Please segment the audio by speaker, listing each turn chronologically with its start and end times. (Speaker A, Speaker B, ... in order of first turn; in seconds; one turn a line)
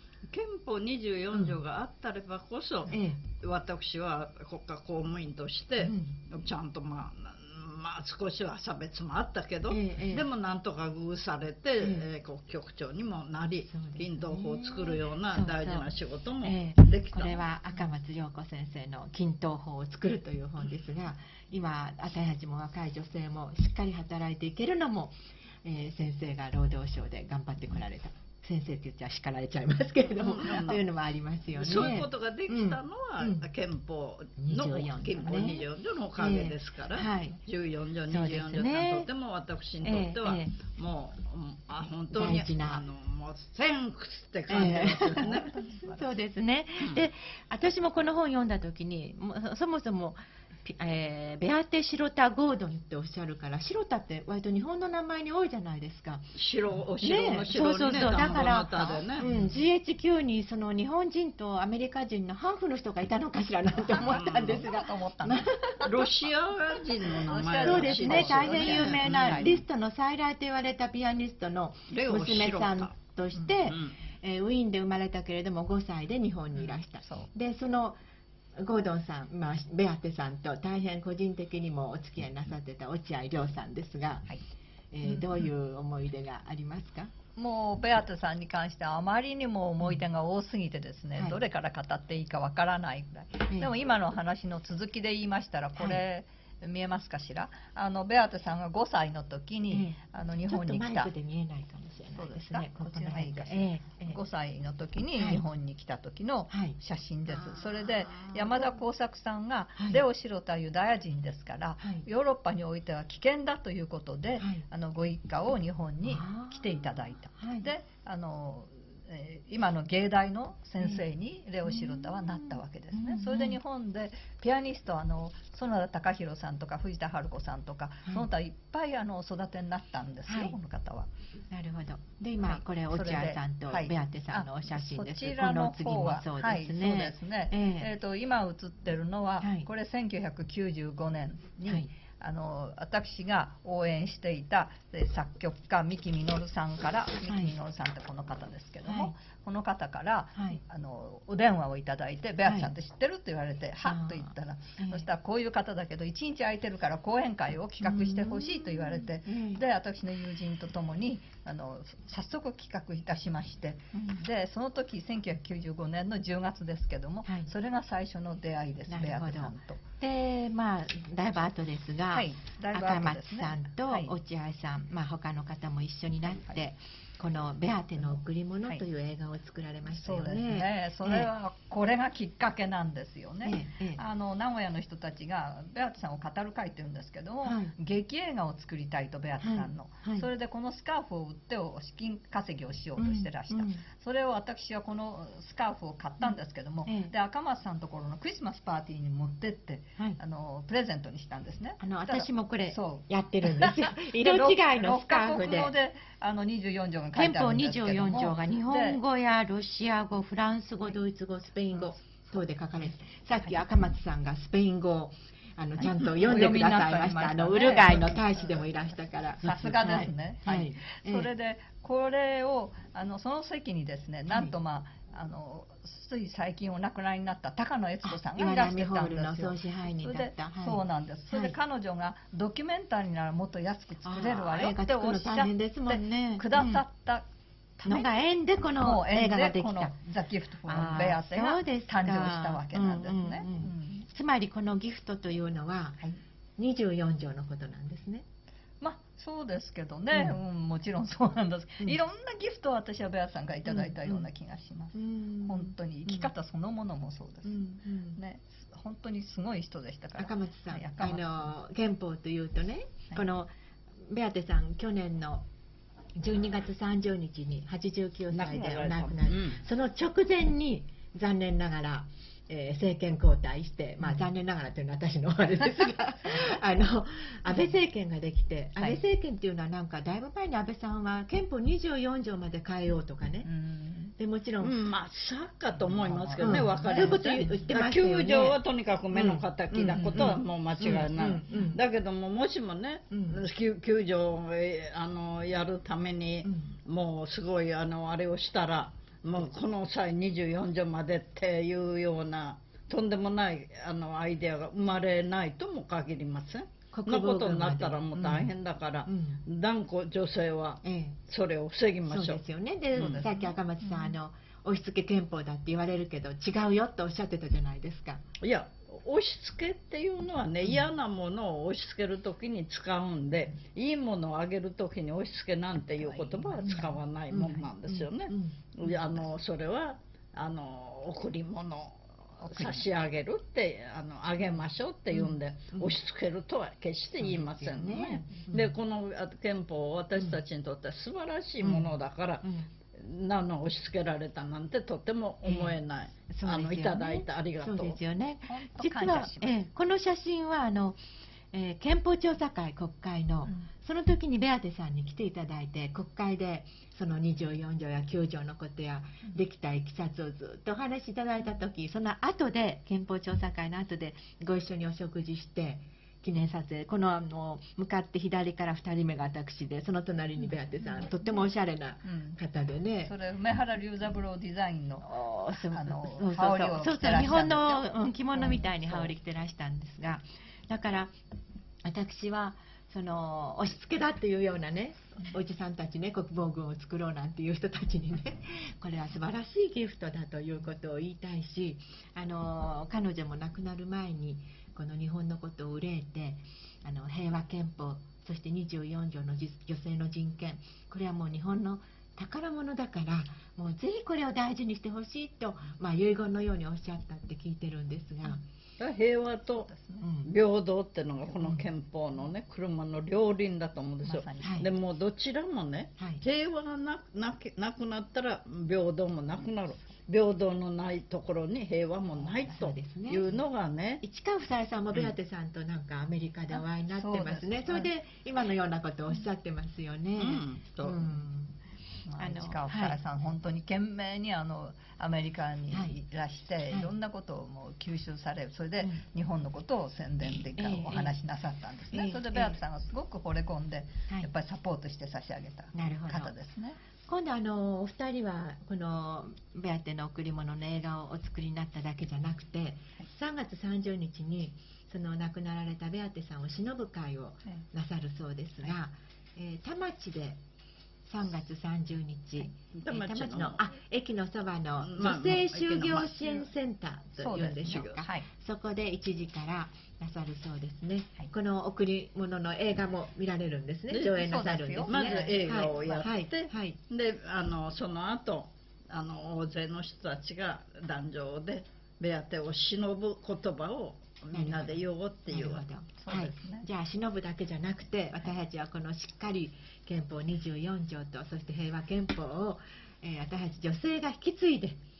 Speaker A: 0.3-17.4
Speaker B: 2.9-3.2
Speaker B: 5.8-6.2
Speaker B: 9.7-10.3
Speaker B: 11.8-12.1
Speaker B: 13.7-33.5
Speaker A: 30.1-30.8
Speaker A: 31.6-45.5
Speaker B: 34.4-35.7
Speaker B: 36.2-37.4
Speaker B: 38.1-39.1
Speaker B: 39.8-40.6
Speaker B: 42.1-42.9
Speaker B: 44.5-56.3
Speaker C: 45.1-46.2
Speaker A: 46.8-47.1
Speaker A: 56.4-59.3
Speaker B: 57.0-66.1
Speaker C: 59.2-59.5
Speaker C: 63.8-65.9
Speaker A: 64.0-64.7
Speaker A: 65.8-69.6
Speaker C: 67.3-69.6
Speaker B: 67.6-78.0
Speaker A: 71.9-73.0
Speaker A: 73.6-73.9
Speaker C: 76.5-77.3
Speaker B: 78.6-84.3
Speaker B: 84.9-87.1
Speaker C: 87.3-101.1
Speaker B: 91.2-91.4
Speaker B: 95.8-96.0
Speaker B: 99.7-104.2
Speaker C: 102.1-131.1
Speaker B: 105.2-105.4
Speaker B: 106.5-108.8
Speaker B: 109.8-110.0
Speaker B: 111.8-112.1
Speaker B: 114.4-114.6
Speaker B: 116.0-117.7
Speaker B: 120.8-121.1
Speaker B: 121.7-123.6
Speaker B: 130.3-130.6
Speaker B: 131.5-137.9
Speaker C: 132.4-169.8
Speaker B: 139.4-139.7
Speaker B: 141.7-141.9
Speaker B: 147.3-147.6
Speaker B: 148.8-149.2
Speaker B: 150.4-150.6
Speaker B: 152.5-152.7
Speaker B: 153.8-155.1
Speaker B: 157.8-159.6
Speaker B: 167.3-167.5
Speaker B: 168.9-181.3
Speaker C: 172.1-174.2
Speaker C: 179.9-209.0
Speaker B: 183.4-184.0
Speaker B: 187.4-187.7
Speaker B: 189.4-190.3
Speaker B: 193.0-193.8
Speaker B: 196.2-197.1
Speaker B: 201.8-205.8
Speaker B: 207.1-221.3
Speaker C: 215.8-218.6
Speaker C: 219.4-237.2
Speaker B: 224.3-224.6
Speaker B: 228.0-231.6
Speaker B: 234.1-236.8
Speaker C: 237.8-238.1
Speaker B: 237.8-239.9
Speaker C: 238.8-244.1
Speaker B: 240.6-246.0
Speaker B: 246.6-248.2
Speaker C: 248.8-261.5
Speaker B: 250.1-250.4
Speaker B: 253.7-254.3
Speaker B: 254.9-256.3
Speaker B: 257.5-258.2
Speaker B: 260.2-265.4
Speaker B: 266.2-283.5
Speaker A: 268.3-269.6
Speaker C: 283.4-284.1
Speaker B: 284.2-284.8
Speaker A: 284.6-312.4
Speaker C: 285.7-287.7
Speaker B: 286.4-288.6
Speaker B: 289.1-291.8
Speaker C: 290.0-290.4
Speaker B: 293.1-293.4
Speaker B: 296.4-296.7
Speaker B: 306.9-308.5
Speaker B: 309.1-309.4
Speaker B: 310.8-311.2
Speaker B: 312.1-318.2
Speaker A: 312.9-313.3
Speaker C: 312.9-314.1
Speaker A: 318.4-348.0
Speaker C: 326.0-326.5
Speaker B: 326.6-328.7
Speaker C: 332.4-332.9
Speaker B: 335.1-335.9
Speaker B: 337.2-338.7
Speaker B: 341.6-342.7
Speaker B: 345.4-351.0
Speaker C: 348.5-349.6
Speaker B: 351.5-373.1
Speaker C: 370.8-371.1
Speaker C: 372.1-372.4
Speaker C: 373.0-379.1
Speaker B: 375.0-381.1
Speaker B: 381.8-408.4
Speaker A: 408.8-409.7
Speaker C: 409.6-410.1
Speaker B: 410.0-410.3
Speaker A: 410.2-424.0
Speaker C: 414.0-414.7
Speaker B: 414.4-414.7
Speaker B: 422.2-423.4
Speaker B: 424.0-431.5
Speaker C: 426.5-427.9
Speaker A: 430.2-431.0
Speaker C: 432.1-446.8
Speaker B: 432.2-433.0
Speaker B: 440.3-441.2
Speaker B: 441.9-442.6
Speaker B: 445.7-446.3
Speaker B: 447.1-460.4
Speaker B: 461.1-476.8
Speaker A: 462.7-463.6
Speaker A: 464.8-466.2
Speaker C: 466.2-466.5
Speaker C: 467.2-468.3
Speaker A: 467.6-468.0
Speaker A: 473.9-474.3
Speaker C: 474.2-476.1
Speaker A: 474.9-485.6
Speaker B: 484.3-494.8
Speaker C: 486.0-486.7